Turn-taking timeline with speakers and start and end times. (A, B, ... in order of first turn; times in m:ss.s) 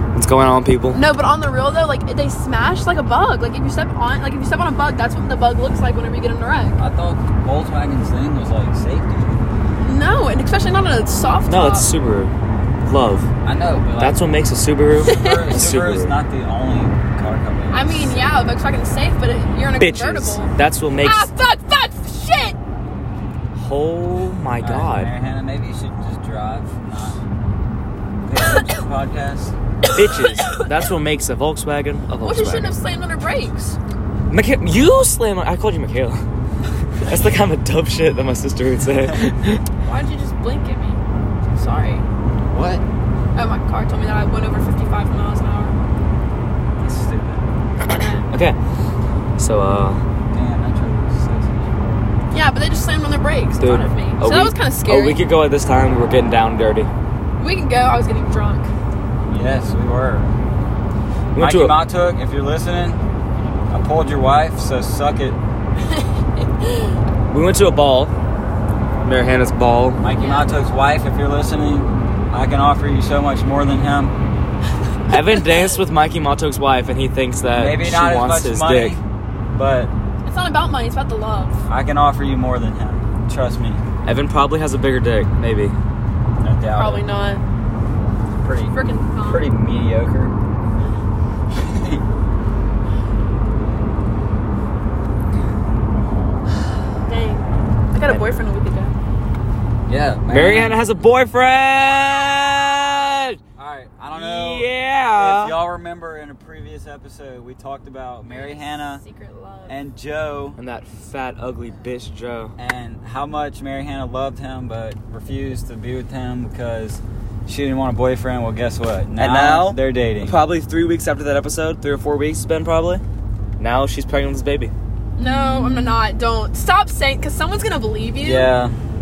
0:00.1-0:01.0 A
0:00.9-0:06.8 B
0:06.8-0:09.4 C
0:09.8-0:11.9 B
0:11.5-0:12.3 A
0:12.8-0:13.3 A
0:13.4-0:14.3 C
0:14.0-0:16.2 A
0:15.0-0:15.6 B
0:15.0-0:18.3 C
0:17.7-0:22.6 B
0:19.8-0:21.3 A
0:23.5-0:25.1 A
0:24.6-0:27.2 C
0:28.3-0:29.6 C
0:29.8-0:30.7 B
0:29.9-0:32.8 A
0:32.2-0:33.8 B
0:34.3-0:36.2 A
0:37.0-0:39.6 A
0:39.8-0:42.1 B
0:42.5-0:42.8 C
0:43.4-0:45.8 B
0:46.8-0:47.5 C
0:47.8-0:48.6 A
0:47.9-0:48.3 B
0:49.4-0:50.0 A
0:50.3-0:52.1 C
0:52.3-0:55.2 B
0:53.6-0:56.9 A
0:57.4-0:58.7 B
0:59.3-1:00.3 C
1:01.3-1:01.8 A
1:01.4-1:03.0 C
1:03.7-1:05.4 C
1:05.9-1:07.0 B
1:07.3-1:08.1 A
1:09.0-1:10.0 A
1:10.0-1:14.2 C
1:10.2-1:10.6 B
1:15.1-1:19.0 A
1:15.1-1:15.5 B
1:17.6-1:19.0 C
1:19.5-1:19.9 C
1:20.2-1:21.6 B
1:21.7-1:23.8 C
1:24.0-1:25.8 A
1:26.4-1:27.1 C
1:26.8-1:27.4 B
1:28.4-1:30.4 C
1:28.7-1:29.5 B
1:31.5-1:32.0 C
1:37.1-1:38.9 B
1:38.1-1:38.4 A
1:39.9-1:40.8 C
1:40.3-1:43.4 A
1:43.6-1:49.0 C
1:44.1-1:45.6 A
1:48.2-1:49.8 B
1:49.7-1:50.6 C
1:50.6-1:52.6 A
1:52.6-2:00.4 C
1:59.2-2:03.0 A
2:03.6-2:04.7 A
2:05.2-2:08.5 B
2:05.2-2:06.0 C
2:08.2-2:08.8 C